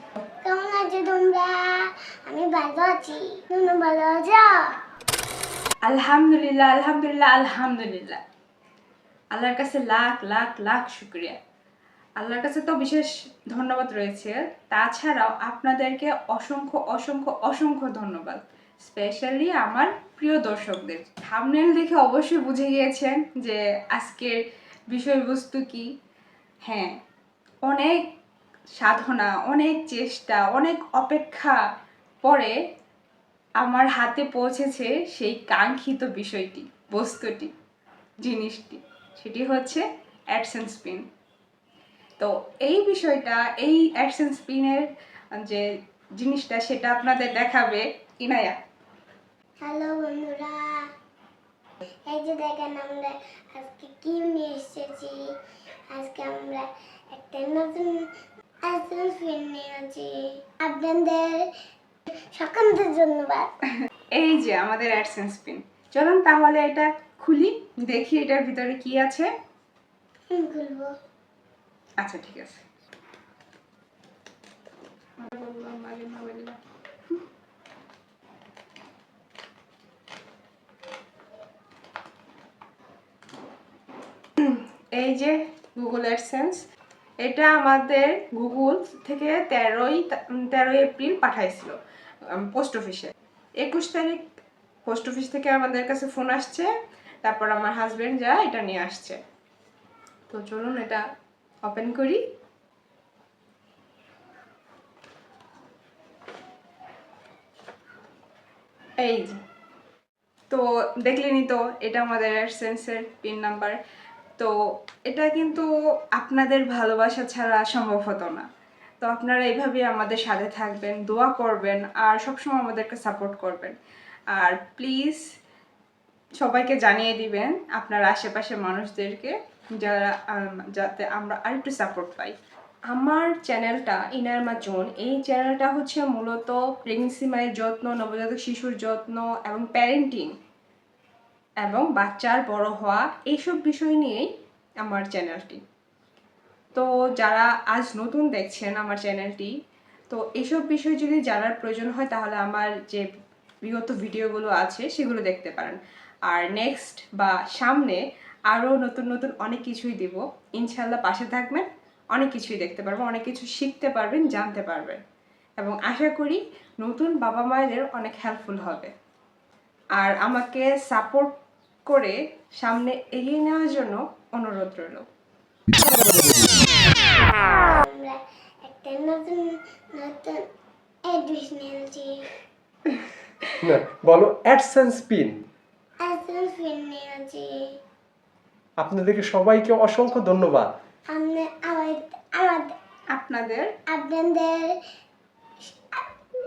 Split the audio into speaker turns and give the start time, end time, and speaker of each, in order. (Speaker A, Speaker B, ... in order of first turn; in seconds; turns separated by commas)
Speaker A: 0.4-4.7, Speaker B: 5.8-8.2, Speaker B: 9.3-11.4, Speaker B: 12.2-25.9, Speaker B: 26.7-27.0, Speaker B: 27.7-28.1, Speaker B: 28.8-31.6, Speaker B: 32.2-32.5, Speaker B: 33.6-37.5, Speaker B: 38.2-41.0, Speaker B: 42.2-45.7, Speaker B: 46.2-48.6, Speaker A: 49.6-50.8, Speaker A: 52.1-55.2, Speaker A: 55.9-58.1, Speaker A: 58.7-61.4, Speaker A: 62.4-63.5, Speaker B: 64.2-69.3, Speaker A: 70.3-70.9, Speaker B: 72.0-72.6, Speaker B: 75.2-76.6, Speaker B: 84.4-86.6, Speaker B: 87.2-94.3, Speaker B: 94.9-96.7, Speaker B: 97.2-99.2, Speaker B: 100.3-101.0, Speaker B: 101.7-102.2, Speaker B: 109.0-109.4, Speaker B: 110.5-113.8, Speaker B: 115.1-118.5, Speaker B: 119.0-123.8, Speaker B: 124.3-125.2, Speaker B: 126.4-132.3, Speaker B: 132.9-140.3, Speaker B: 141.6-144.3, Speaker B: 144.8-145.6, Speaker B: 146.7-149.5, Speaker B: 150.1-153.1, Speaker B: 153.6-165.0, Speaker B: 165.6-168.9, Speaker B: 170.0-171.4, Speaker B: 171.9-175.1, Speaker A: 177.4-180.4, Speaker A: 181.1-182.3, Speaker C: 183.6-185.4, Speaker A: 186.0-187.6, Speaker C: 188.8-190.7, Speaker A: 191.1-192.7, Speaker B: 193.1-193.7, Speaker A: 193.9-194.7, Speaker A: 195.7-196.1